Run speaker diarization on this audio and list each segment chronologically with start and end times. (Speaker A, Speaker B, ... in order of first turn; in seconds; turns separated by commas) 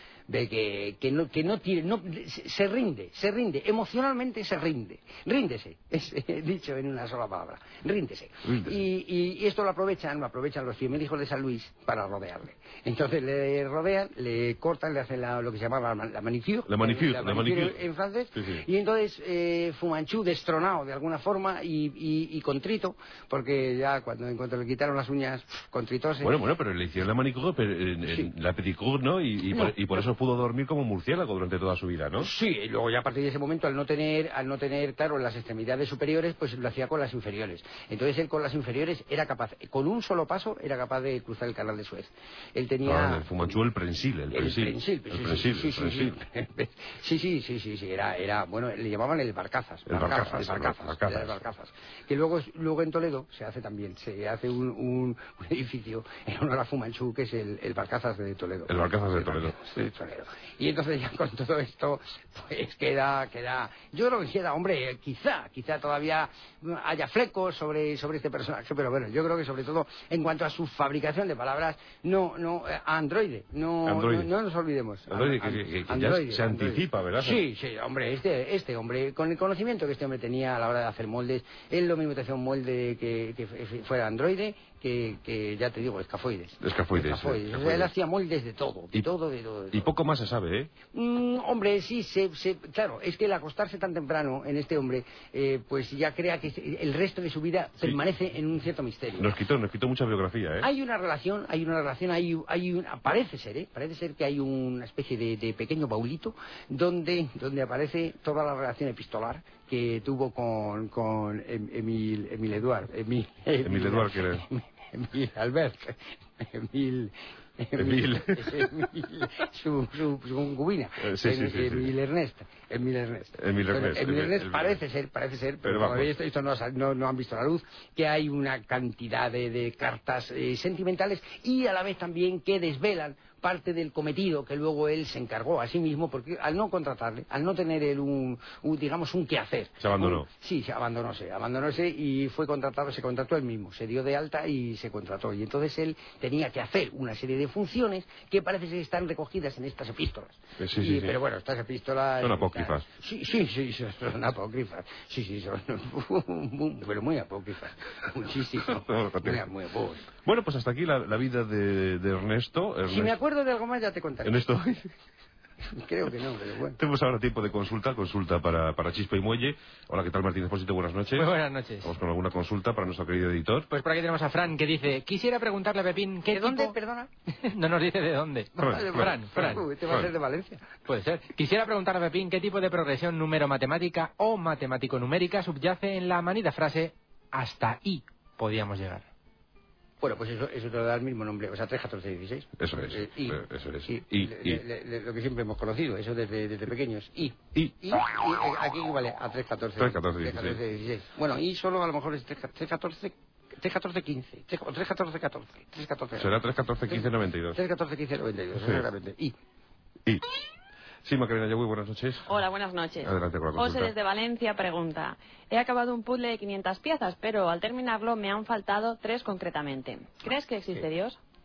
Speaker A: 0.3-26.3, Speaker B: 8.4-8.7, Speaker B: 16.7-17.8, Speaker B: 18.3-18.6, Speaker B: 26.2-32.3, Speaker A: 29.5-29.8, Speaker A: 32.2-43.5, Speaker B: 42.8-46.1, Speaker A: 44.3-89.9, Speaker B: 49.9-51.4, Speaker B: 58.7-59.6, Speaker B: 73.8-74.3, Speaker B: 75.1-77.4, Speaker B: 86.6-87.9, Speaker B: 89.7-90.7, Speaker A: 90.9-99.3, Speaker B: 99.2-100.7, Speaker A: 100.6-160.1, Speaker B: 113.6-114.5, Speaker B: 117.8-118.8, Speaker B: 121.0-121.9, Speaker B: 123.3-124.8, Speaker B: 125.6-126.1, Speaker B: 139.8-140.3, Speaker B: 150.6-151.2, Speaker B: 152.2-152.9, Speaker B: 158.6-159.4, Speaker B: 160.2-163.2, Speaker A: 162.9-164.5, Speaker B: 164.2-164.9, Speaker A: 165.7-166.8, Speaker B: 166.8-173.7, Speaker C: 171.2-171.9, Speaker C: 173.7-176.7, Speaker A: 176.3-177.1, Speaker C: 177.4-179.7, Speaker A: 178.6-180.7, Speaker B: 178.6-179.1, Speaker B: 179.8-180.1, Speaker C: 180.8-189.1, Speaker A: 190.0-206.3, Speaker B: 192.6-194.6, Speaker B: 199.8-200.6, Speaker B: 206.2-207.6, Speaker A: 206.9-209.3, Speaker B: 211.0-212.3, Speaker D: 212.3-221.2, Speaker B: 213.0-213.9